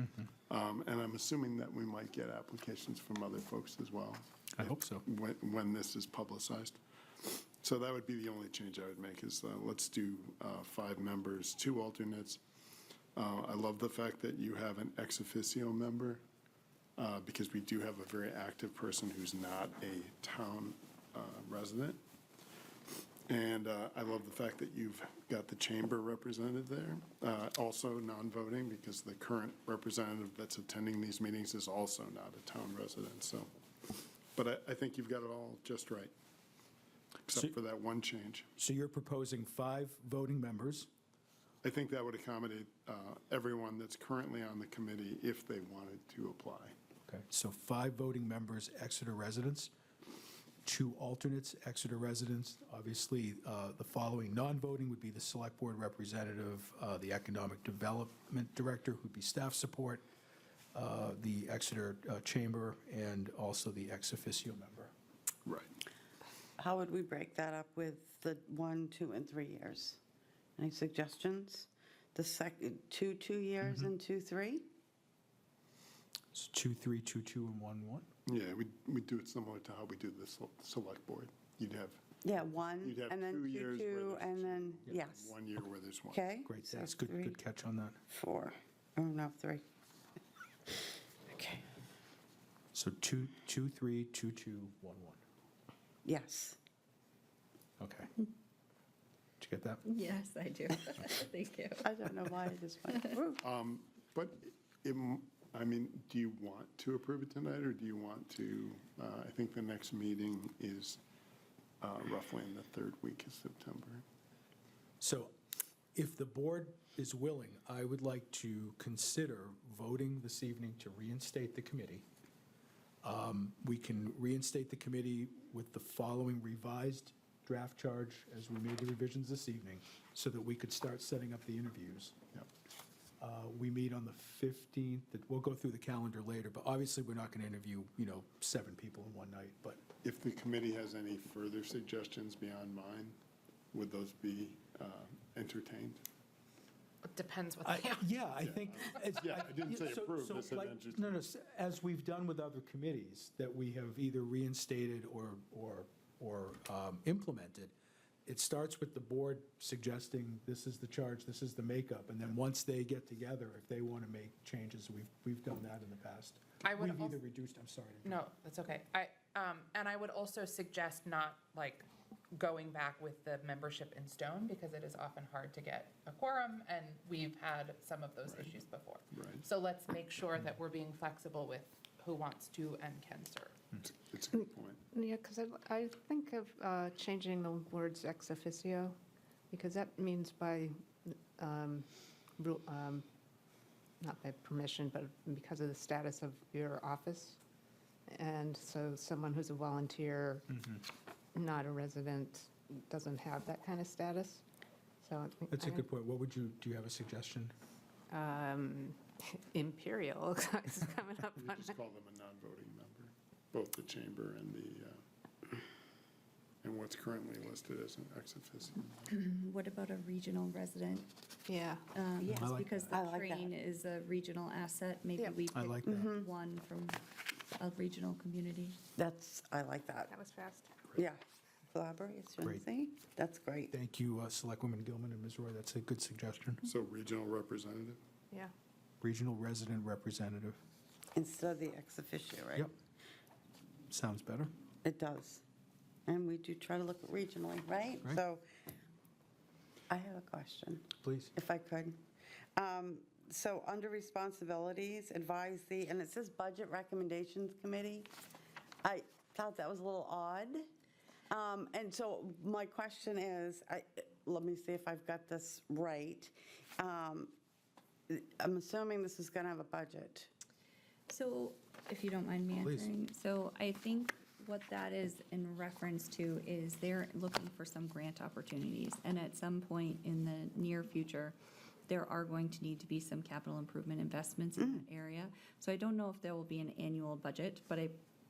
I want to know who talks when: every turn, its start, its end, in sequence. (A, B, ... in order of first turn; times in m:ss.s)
0:00.5-0:12.4 A
0:04.5-0:05.0 B
0:13.2-0:16.2 A
0:17.0-0:22.0 A
0:23.3-0:33.5 A
0:34.4-0:36.1 A
0:37.2-0:38.5 A
0:38.6-0:40.9 B
0:41.6-0:46.7 A
0:47.1-0:49.7 B
0:50.6-1:00.0 B
1:00.7-1:04.9 B
1:05.4-1:05.7 A
1:06.6-1:10.0 C
1:10.6-1:14.7 C
1:13.6-1:13.9 B
1:16.3-1:18.1 B
1:18.2-1:22.0 A
1:22.2-1:25.3 C
1:22.8-1:26.3 A
1:26.1-1:27.4 C
1:26.4-1:28.0 B
1:28.1-1:29.6 C
1:31.3-1:31.6 C
1:32.7-1:35.2 B
1:36.0-1:36.6 C
1:37.8-1:38.1 B
1:39.4-1:39.8 B
1:39.8-1:42.4 D
1:41.8-1:43.4 C
1:43.4-1:51.0 A
1:51.8-1:54.0 A
1:55.0-1:55.3 B
1:55.9-2:02.0 B
2:03.0-2:12.2 B
2:13.2-2:19.8 B
2:20.0-2:23.2 A
2:23.7-2:26.0 A
2:27.0-2:28.0 E
2:27.6-2:37.7 B
2:28.4-2:31.2 A
2:38.2-2:48.2 B
2:46.6-2:47.2 E
2:48.1-2:51.8 E
2:52.3-3:03.5 E
2:59.1-2:59.4 A
3:03.8-3:04.8 A
3:04.9-3:09.0 F
3:09.5-3:13.0 F
3:14.0-3:17.4 F
3:18.1-3:20.5 F
3:20.5-3:20.8 B
3:21.3-3:24.4 F
3:25.0-3:25.8 F
3:25.5-3:27.5 B
3:28.1-3:31.8 F
3:31.3-3:35.0 A
3:36.6-3:39.1 A
3:39.1-3:41.1 D
3:41.4-3:41.9 F
3:41.9-3:48.8 D
3:42.2-3:43.0 B
3:42.3-3:43.5 C
3:45.5-3:46.1 B
3:45.8-3:46.3 C
3:49.0-3:50.1 C
3:50.1-3:50.8 F
3:50.9-3:53.7 C
3:53.7-3:56.6 B
3:56.6-3:58.0 A
3:59.0-4:00.6 B
4:01.1-4:02.7 C
4:03.9-4:04.5 B
4:04.8-4:05.4 C
4:06.1-4:08.4 C
4:09.9-4:12.0 C
4:11.0-4:11.3 B
4:12.6-4:18.1 C
4:18.8-4:20.6 C
4:21.3-4:27.3 C
4:28.1-4:30.3 C
4:31.1-4:41.4 D
4:32.6-4:32.9 B
4:41.9-4:48.0 D
4:44.6-4:44.8 C